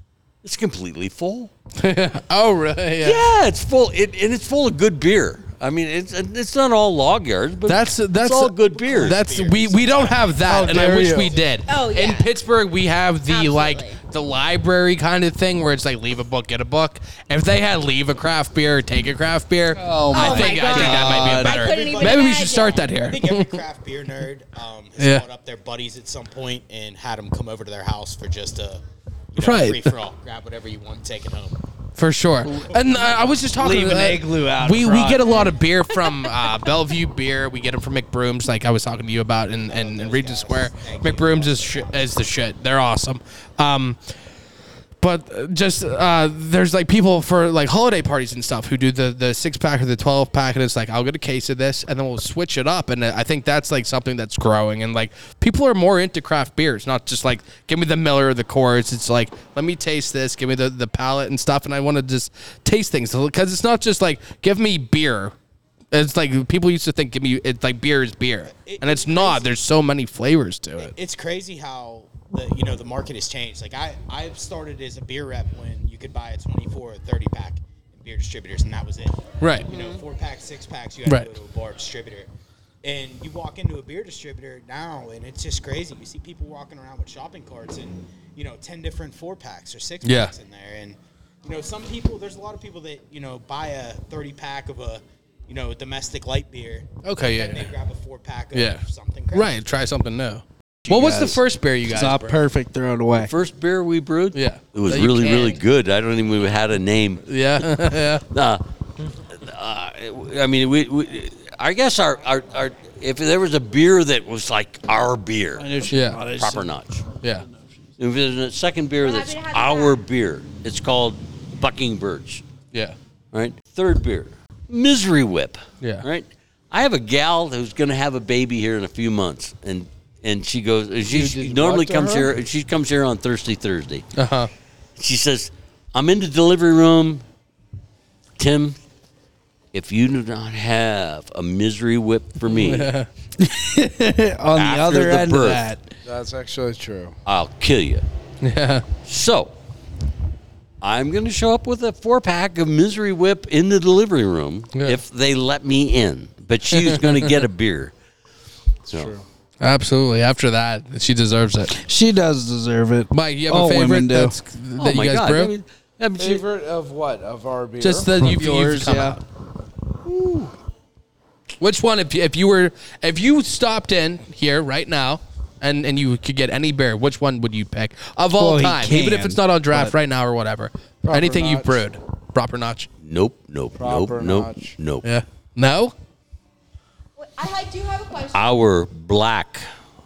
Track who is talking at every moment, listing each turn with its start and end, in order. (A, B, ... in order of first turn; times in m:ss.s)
0:00.4-0:01.5 A
0:01.8-0:03.2 B
0:03.0-0:09.2 A
0:07.7-0:23.6 B
0:08.7-0:11.6 C
0:10.5-0:11.4 D
0:11.7-0:12.3 E
0:13.3-0:14.0 E
0:19.8-0:21.8 F
0:20.1-0:22.9 E
0:20.6-0:31.6 C
0:25.0-0:25.2 B
0:29.4-0:29.9 B
0:32.0-0:44.0 B
0:32.5-0:35.5 F
0:32.6-0:33.0 C
0:39.6-0:42.2 C
0:45.0-1:05.3 B
1:05.9-1:11.0 B
1:08.5-1:09.5 C
1:10.8-1:22.3 C
1:19.4-1:19.7 B
1:19.7-1:20.0 E
1:21.0-1:21.3 B
1:22.8-1:39.6 C
1:30.0-1:30.3 B
1:37.0-1:37.7 B
1:38.5-1:42.4 B
1:40.9-1:43.3 F
1:43.2-1:47.7 A
1:44.3-1:45.6 B
1:47.3-1:48.2 B
1:48.3-1:48.6 A
1:49.3-1:57.0 A
1:55.6-1:56.7 F
1:55.9-1:56.2 B
1:58.0-2:02.4 A
1:59.0-2:00.0 E
2:03.3-2:14.1 A
2:11.1-2:12.3 D
2:14.2-2:14.5 B
2:15.0-2:17.2 A
2:18.4-2:18.8 A
2:19.7-2:22.9 A
2:22.5-2:23.1 B
2:23.4-2:25.9 F
2:24.6-2:25.6 A
2:26.0-2:27.1 D
2:27.3-2:28.1 A
2:28.4-2:28.9 B
2:29.0-2:29.5 A
2:30.8-2:37.9 A
2:34.7-2:35.0 B
2:36.8-2:37.1 B
2:38.9-2:39.2 D
2:39.6-2:41.7 B
2:41.7-2:44.4 F
2:43.1-2:45.5 B
2:44.8-2:46.4 A
2:46.2-2:48.2 D
2:47.8-2:49.2 B
2:48.2-2:49.2 F
2:50.0-2:50.5 D
2:51.6-3:02.9 B
2:58.3-3:00.0 F
3:01.0-3:01.8 D
3:03.0-3:05.0 A
3:03.8-3:04.8 D
3:05.0-3:05.9 B
3:07.2-3:08.6 E
3:08.3-3:09.7 A